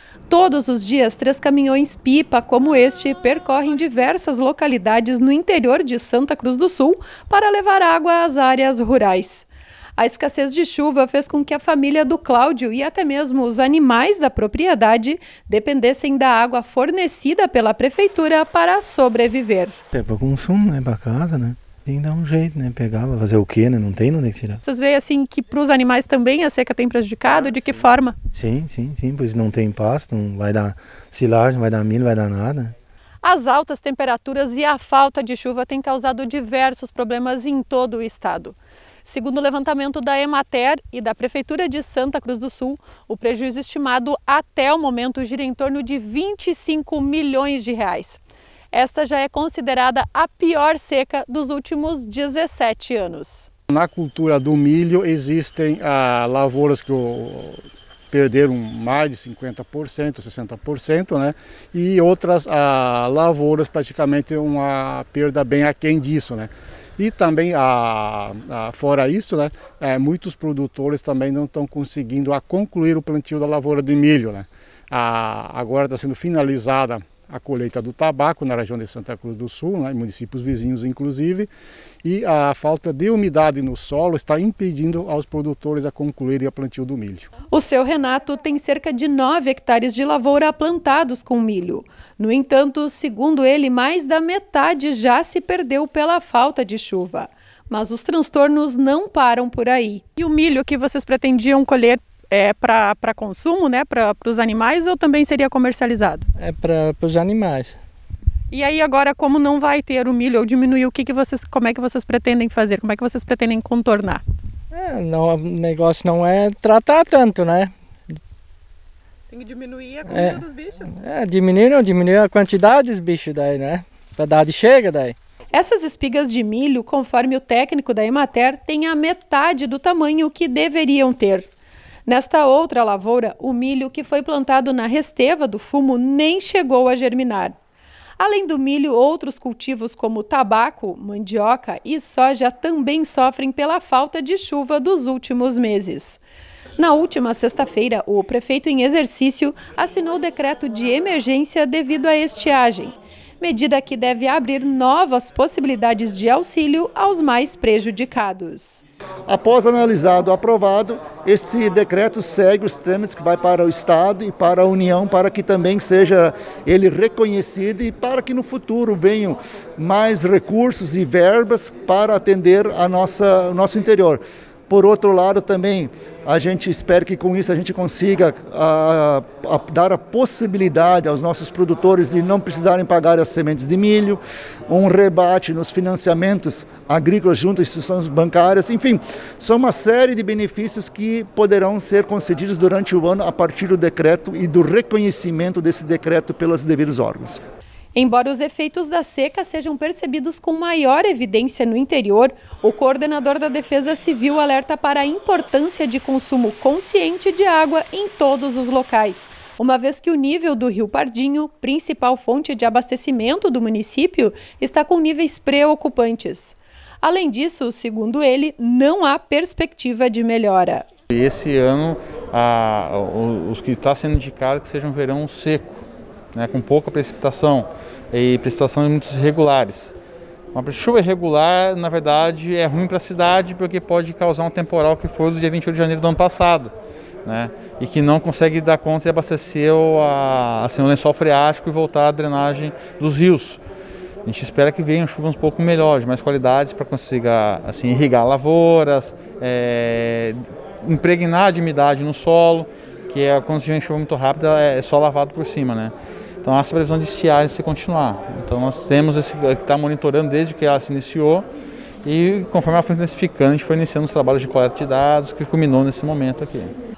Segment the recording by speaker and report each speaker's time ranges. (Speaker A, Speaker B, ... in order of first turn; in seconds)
Speaker A: 0.3-19.8, 24.6-28.1, 33.2-48.2, 48.7-53.5, 87.5-106.3, 108.5-114.2, 119.3-120.9, 125.5-131.5, 132.1-137.6, 138.2-146.2, 146.8-158.8, 197.9-220.8
Speaker B: 19.9-24.6, 28.3-32.7
Speaker C: 53.8-57.5, 58.1-66.5, 67.0-81.5, 82.1-87.2
Speaker D: 106.4-107.8, 114.7-118.2, 120.1-125.2
Speaker E: 159.3-197.4
Speaker F: 221.1-229.9, 230.5-236.7, 237.2-243.6, 244.2-261.4, 262.0-266.7